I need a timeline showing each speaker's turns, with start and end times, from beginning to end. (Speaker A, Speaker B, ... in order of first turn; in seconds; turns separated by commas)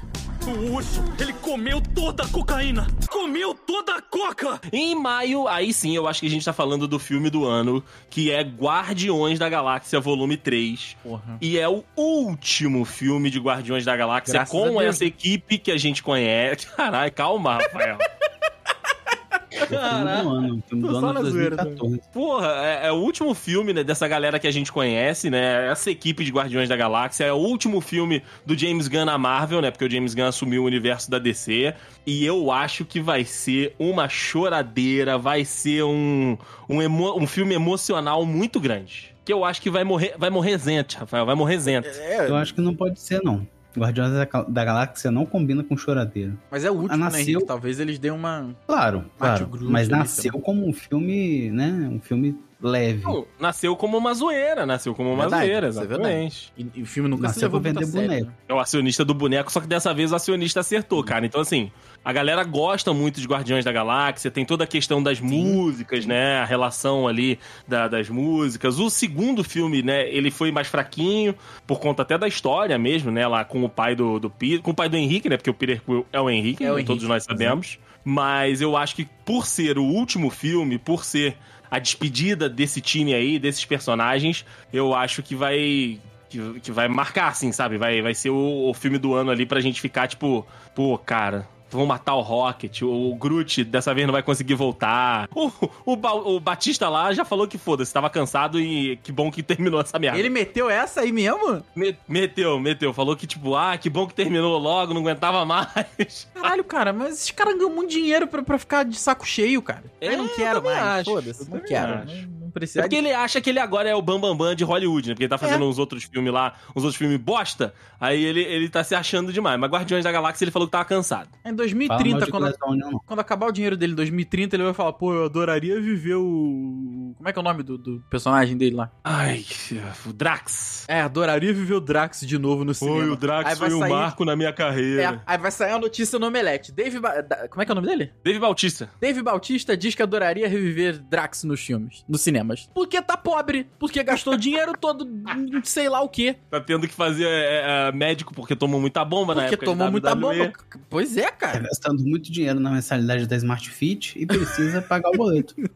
Speaker A: 0.4-4.6, Speaker B: 4.6-18.1, Speaker C: 11.0-11.4, Speaker C: 14.2-15.1, Speaker C: 19.1-19.4, Speaker B: 19.6-20.3, Speaker D: 19.6-22.0, Speaker C: 20.8-21.8, Speaker B: 22.1-42.0, Speaker C: 41.8-42.5, Speaker D: 42.2-47.5, Speaker C: 46.5-48.6, Speaker D: 48.7-53.2, Speaker C: 49.2-50.4, Speaker B: 53.0-56.5, Speaker C: 55.1-58.3, Speaker D: 57.1-58.3, Speaker B: 58.5-100.3, Speaker C: 65.3-65.6, Speaker C: 76.6-77.6, Speaker C: 100.1-101.6, Speaker B: 101.8-106.5, Speaker C: 106.4-113.0, Speaker B: 110.0-112.2, Speaker B: 112.8-121.3, Speaker C: 121.4-122.5, Speaker D: 121.9-123.0, Speaker C: 123.1-128.9, Speaker B: 129.0-130.9, Speaker C: 130.9-134.1, Speaker B: 132.8-135.2, Speaker C: 135.0-138.1, Speaker B: 138.2-138.9, Speaker C: 139.0-146.4, Speaker B: 146.5-150.5, Speaker C: 149.3-151.7, Speaker D: 151.5-155.6